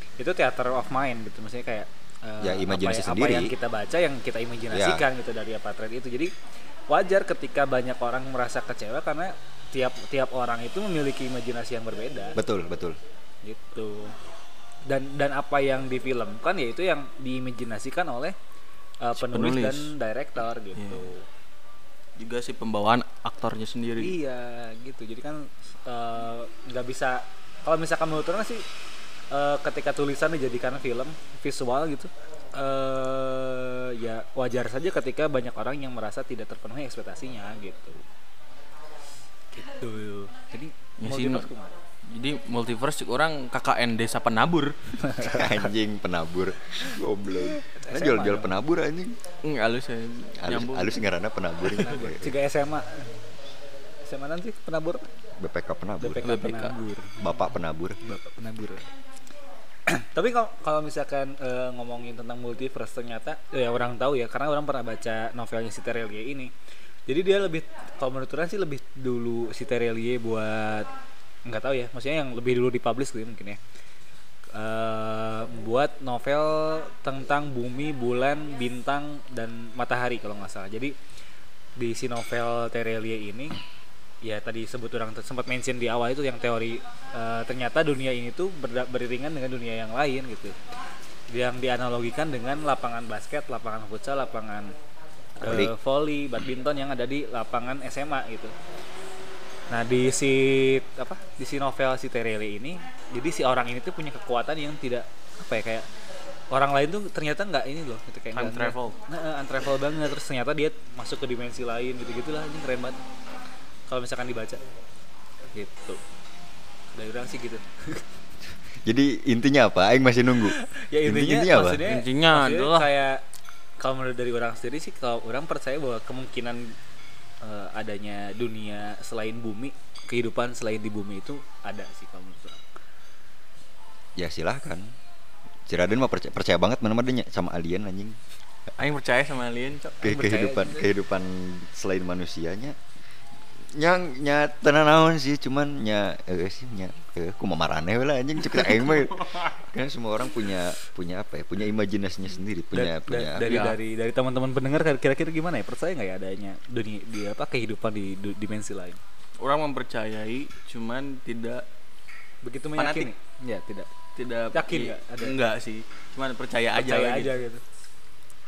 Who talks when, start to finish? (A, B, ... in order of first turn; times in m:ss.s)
0:00.2-0:06.3 A
0:02.4-0:03.5 B
0:04.7-0:05.0 B
0:06.9-0:12.4 A
0:12.4-0:13.0 B
0:13.4-0:14.1 A
0:14.9-0:18.3 A
0:19.0-0:21.2 A
0:19.2-0:19.9 C
0:20.8-0:21.1 C
0:22.2-0:24.1 C
0:24.0-0:28.6 A
0:29.3-0:38.0 A
0:39.5-0:41.7 A
0:41.0-0:41.5 C
0:42.1-0:45.0 C
0:45.0-0:45.6 A
0:45.2-0:49.2 B
0:47.7-0:48.5 A
0:49.4-0:51.0 C
0:50.4-0:52.3 B
0:51.8-0:53.1 A
0:54.0-0:55.1 A
0:55.4-0:56.3 B
0:56.0-0:57.2 A
0:56.2-0:56.7 C
0:57.2-0:58.0 B
0:58.0-0:58.8 A
0:59.9-1:06.5 A
1:07.1-1:10.9 A
1:11.5-1:13.6 A
1:14.5-1:20.9 A
1:21.8-1:23.6 A
1:24.2-1:30.5 A
1:31.3-1:34.7 A
1:35.4-1:35.7 B
1:35.4-1:38.5 A
1:39.7-1:45.9 A
1:46.5-1:53.0 A
1:48.3-1:49.0 C
1:53.9-1:54.6 A
1:55.5-1:56.0 A
1:56.9-1:58.0 A
1:58.8-2:01.8 B
2:00.5-2:03.2 A
2:01.8-2:02.9 C
2:03.8-2:06.8 A
2:07.4-2:12.6 A
2:14.2-2:14.9 B
2:15.7-2:18.2 B
2:18.8-2:19.9 C
2:19.9-2:20.9 A
2:20.0-2:22.8 B
2:23.7-2:33.6 B
2:32.7-2:39.0 A
2:33.4-2:33.8 C
2:39.4-2:41.6 C
2:42.4-2:43.9 A
2:42.8-2:43.1 C
2:44.2-2:47.3 C
2:44.5-2:45.4 A
2:46.7-2:47.6 A